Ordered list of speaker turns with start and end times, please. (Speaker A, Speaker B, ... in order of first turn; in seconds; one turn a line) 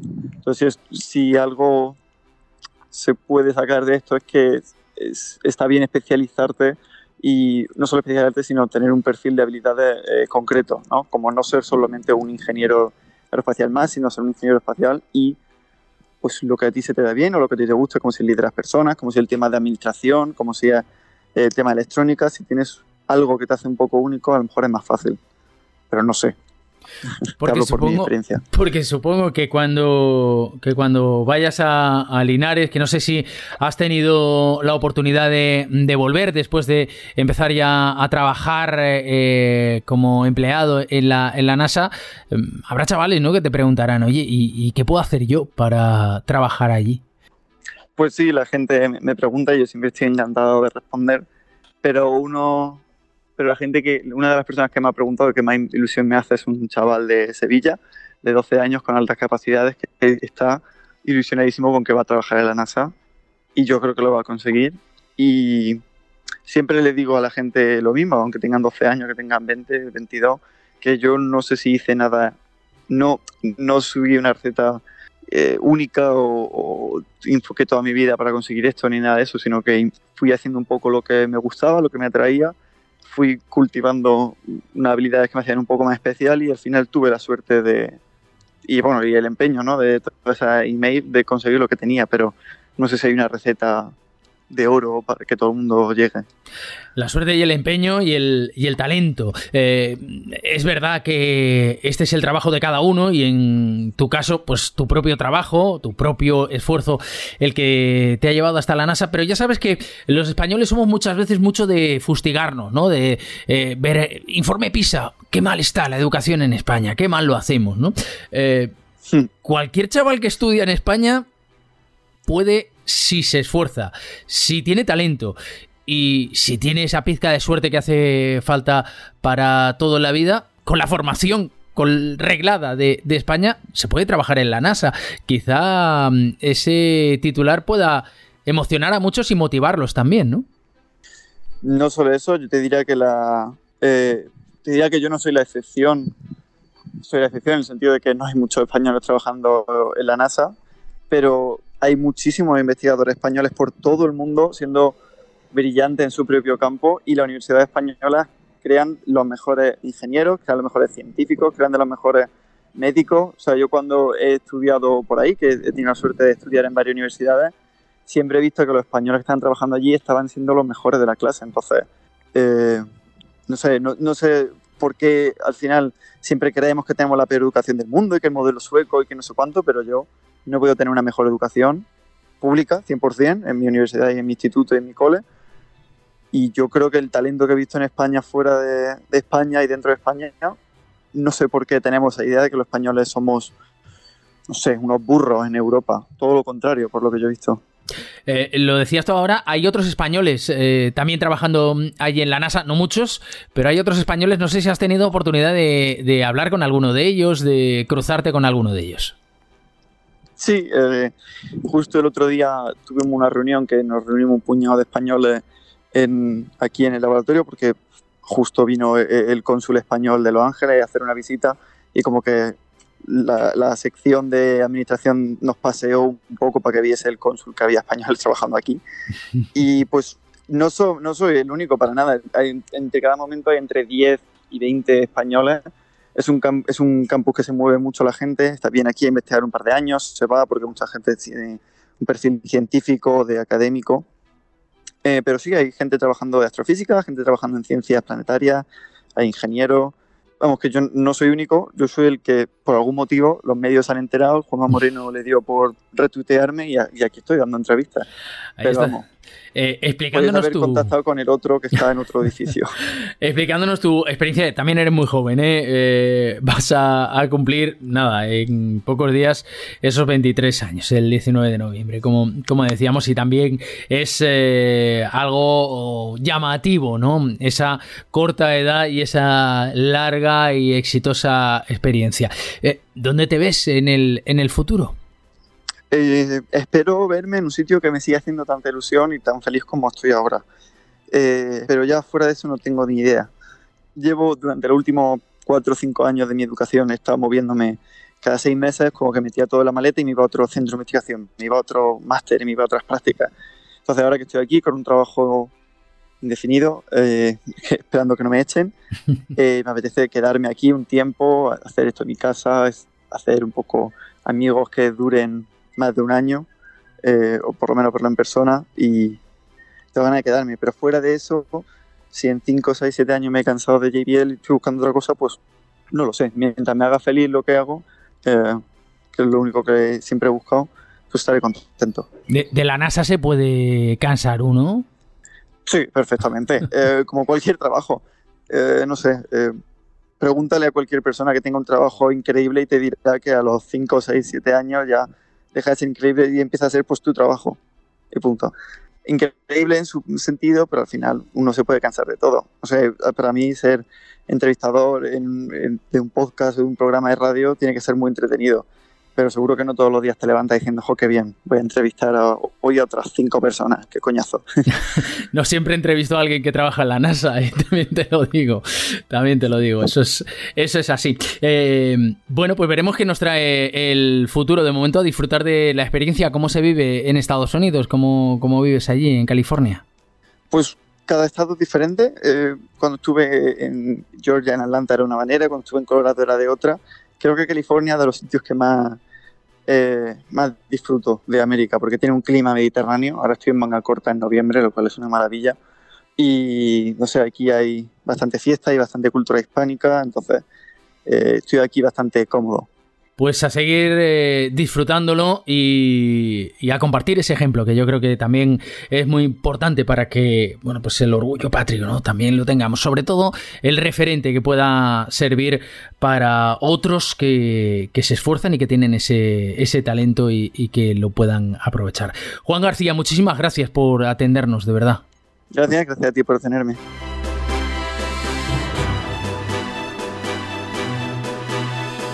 Speaker A: 0.4-2.0
Speaker A: 2.9-15.4
Speaker A: 16.2-20.8
Speaker A: 21.3-25.2
Speaker A: 25.9-26.4
Speaker B: 27.4-47.0
Speaker A: 27.4-28.4
Speaker A: 48.0-51.2
Speaker A: 51.8-52.8
Speaker A: 53.4-62.9
Speaker A: 63.5-65.8
Speaker A: 66.4-72.4
Speaker A: 72.9-82.5
Speaker A: 83.0-88.0
Speaker A: 88.7-93.9
Speaker A: 94.5-96.2
Speaker B: 97.0-118.7
Speaker B: 119.4-121.2
Speaker B: 122.2-125.3
Speaker B: 125.9-140.4
Speaker A: 141.6-146.1
Speaker A: 147.0-150.5
Speaker A: 151.1-155.0
Speaker A: 155.5-167.5
Speaker A: 168.1-172.8
Speaker A: 173.5-181.8
Speaker A: 182.4-185.2
Speaker A: 186.3-190.6
Speaker A: 191.1-193.5
Speaker A: 194.5-197.6
Speaker B: 198.3-209.2
Speaker A: 210.4-211.1
Speaker A: 211.6-228.8
Speaker A: 229.5-235.6
Speaker A: 236.1-244.0
Speaker A: 245.0-258.1
Speaker B: 258.6-259.0
Speaker A: 258.6-259.0
Speaker B: 259.5-260.9
Speaker A: 260.1-262.7
Speaker B: 263.2-284.9
Speaker A: 285.9-290.4
Speaker A: 291.1-293.3
Speaker A: 293.9-303.3
Speaker A: 303.9-305.5
Speaker A: 306.2-308.7
Speaker A: 309.3-316.5
Speaker A: 317.0-319.2
Speaker A: 319.9-325.4
Speaker A: 325.9-328.6
Speaker A: 329.1-332.1
Speaker B: 332.3-334.9
Speaker A: 335.6-339.6
Speaker A: 340.2-347.6
Speaker A: 348.1-348.5
Speaker A: 349.0-358.6
Speaker A: 359.2-364.4
Speaker B: 364.9-379.8
Speaker A: 380.5-389.0
Speaker A: 389.7-395.6
Speaker A: 396.2-400.4
Speaker A: 401.1-402.7
Speaker B: 403.2-425.0
Speaker A: 425.5-426.8